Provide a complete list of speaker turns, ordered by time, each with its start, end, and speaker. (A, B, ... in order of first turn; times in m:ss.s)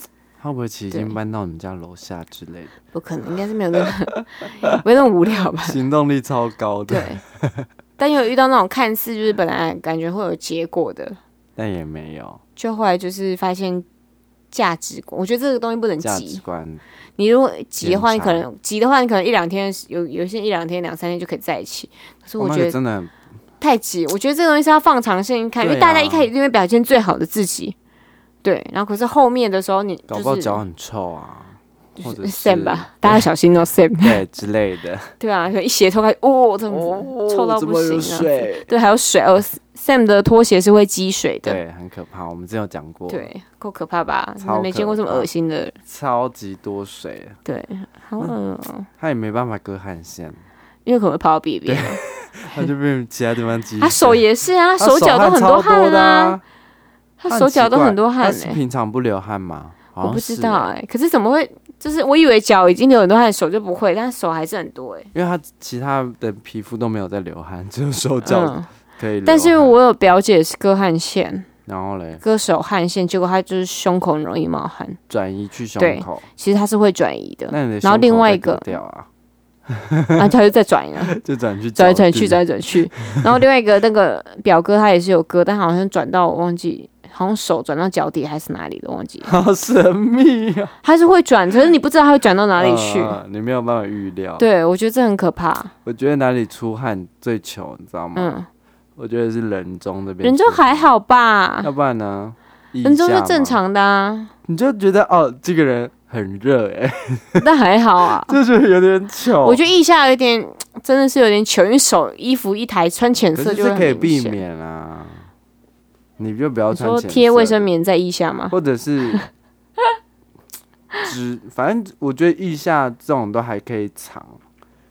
0:00.4-0:02.7 A
0:00.9-0:01.2 B
0:02.9-0:05.8 B
0:05.5-0:07.7 A
0:06.9-0:07.2 B
0:08.0-0:11.2 B
0:11.6-0:12.4 A
0:12.6-0:13.9 B
0:14.5-0:16.4 B
0:16.0-0:16.8 A
0:17.2-0:22.8 B
0:17.8-0:18.4 A
0:22.4-0:23.1 A
0:23.6-0:27.8 B
0:25.6-0:26.3 A
0:28.4-0:30.6 B
0:30.1-0:33.3 A
0:32.0-0:34.2 B
0:34.0-0:35.1 A
0:35.2-0:41.6 B
0:36.7-0:38.7 A
0:41.4-0:43.3 A
0:43.1-0:45.8 B
0:44.4-0:45.3 A
0:45.9-0:47.4 A
0:47.4-0:48.9 B
0:49.0-0:50.4 A
0:50.9-0:52.0 B
0:51.7-0:54.2 A
0:53.8-0:56.4 B
0:54.8-0:56.4 A
0:57.2-0:58.6 B
0:57.3-1:00.7 A
1:00.0-1:05.1 B
1:05.1-1:09.8 A
1:08.2-1:08.7 B
1:09.2-1:11.5 B
1:11.7-1:12.2 A
1:12.2-1:15.0 B
1:15.1-1:16.2 A
1:15.8-1:18.8 B
1:17.5-1:19.1 A
1:19.7-1:20.3 A
1:20.2-1:21.2 B
1:21.0-1:22.4 A
1:21.8-1:29.3 B
1:29.2-1:30.8 A
1:30.8-1:33.2 B
1:32.6-1:34.4 A
1:34.4-1:35.7 B
1:35.8-1:38.4 A
1:38.2-1:38.5 B
1:39.0-1:40.9 A
1:40.2-1:41.7 B
1:41.6-1:43.6 A
1:42.8-1:44.3 B
1:44.5-1:47.5 A
1:47.4-1:48.4 B
1:48.2-1:49.6 A
1:49.4-1:54.4 B
1:53.4-1:55.3 A
1:56.2-1:57.6 A
1:56.7-1:58.6 B
1:58.5-1:59.2 A
2:01.0-2:04.4 A